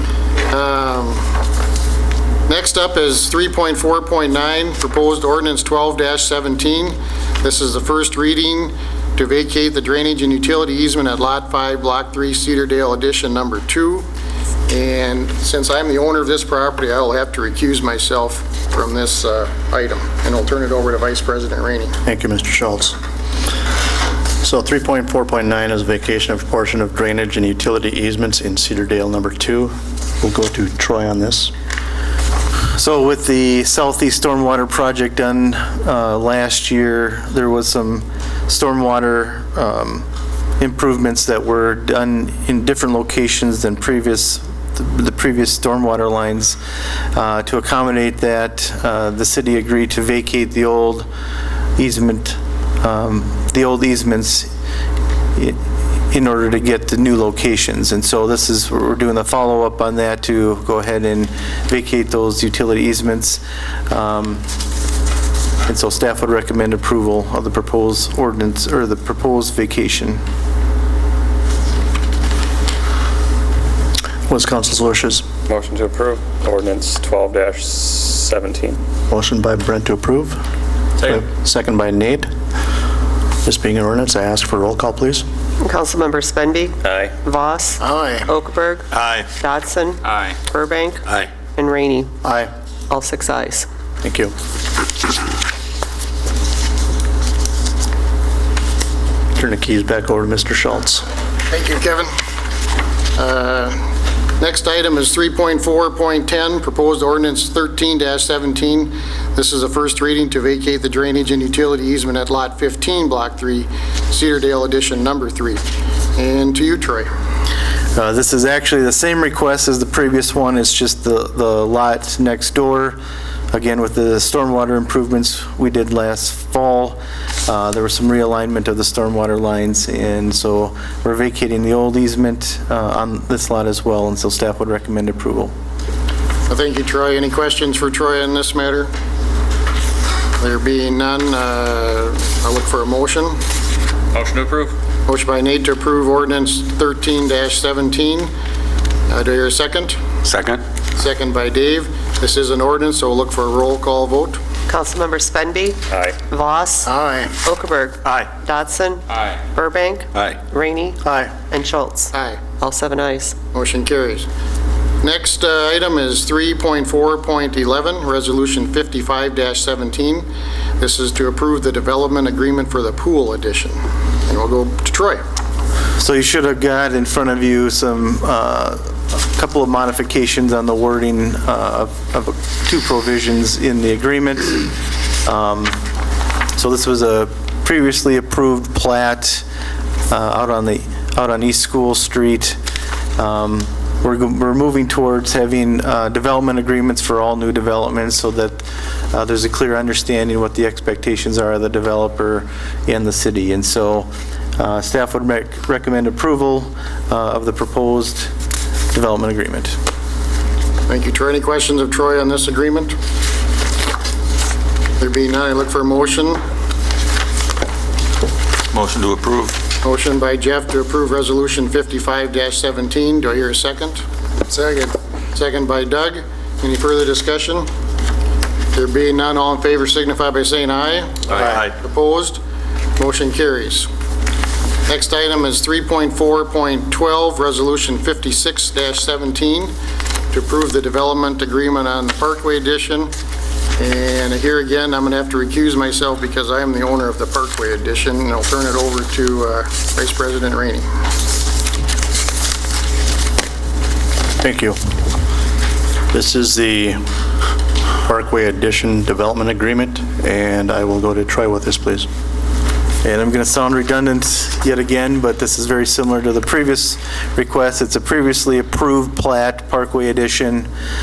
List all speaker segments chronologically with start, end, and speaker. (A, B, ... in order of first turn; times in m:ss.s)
0:00.5-0:01.2 A
0:02.5-0:14.0 A
0:14.7-0:22.0 A
0:22.0-0:23.0 B
0:24.4-0:31.5 B
0:32.7-0:40.0 C
0:40.6-0:46.6 C
0:47.1-0:51.1 C
0:51.8-0:54.5 C
0:56.1-1:04.5 C
1:05.6-1:10.2 C
1:14.3-1:15.3 B
1:15.5-1:18.8 D
1:19.1-1:20.4 B
1:21.0-1:22.3 B
1:23.4-1:25.2 B
1:25.6-1:32.1 E
1:26.8-1:27.1 D
1:27.8-1:28.3 A
1:28.9-1:29.3 F
1:32.2-1:32.5 B
1:32.9-1:33.7 E
1:34.0-1:34.3 B
1:39.3-1:41.0 B
1:41.5-1:42.1 A
1:43.2-1:43.8 A
1:44.4-1:55.6 A
1:56.2-1:57.1 A
1:57.9-2:03.0 C
2:03.5-2:15.5 C
2:16.5-2:18.9 A
2:20.4-2:23.4 A
2:24.1-2:24.6 F
2:24.2-2:24.7 D
2:25.1-2:28.3 A
2:29.1-2:30.0 A
2:30.2-2:30.6 F
2:30.9-2:34.4 A
2:34.7-2:36.9 E
2:35.9-2:36.2 D
2:36.8-2:37.3 A
2:37.4-2:43.4 E
2:41.0-2:41.3 B
2:42.1-2:42.4 A
2:43.5-2:44.3 A
2:45.0-2:50.3 A
2:50.8-2:55.2 A
2:56.0-3:05.8 C
3:06.6-3:09.4 C
3:10.1-3:12.6 C
3:13.2-3:28.3 C
3:28.9-3:29.8 C
3:30.9-3:33.0 A
3:35.0-3:36.4 A
3:38.7-3:39.6 F
3:39.8-3:47.7 A
3:48.7-3:52.4 A
3:53.0-3:53.9 A
3:54.9-3:59.7 A
4:00.3-4:03.1 A
4:03.8-4:10.8 A
4:14.4-4:14.8 B
4:16.1-4:17.0 B
4:18.0-4:22.1 B
4:23.0-4:30.7 C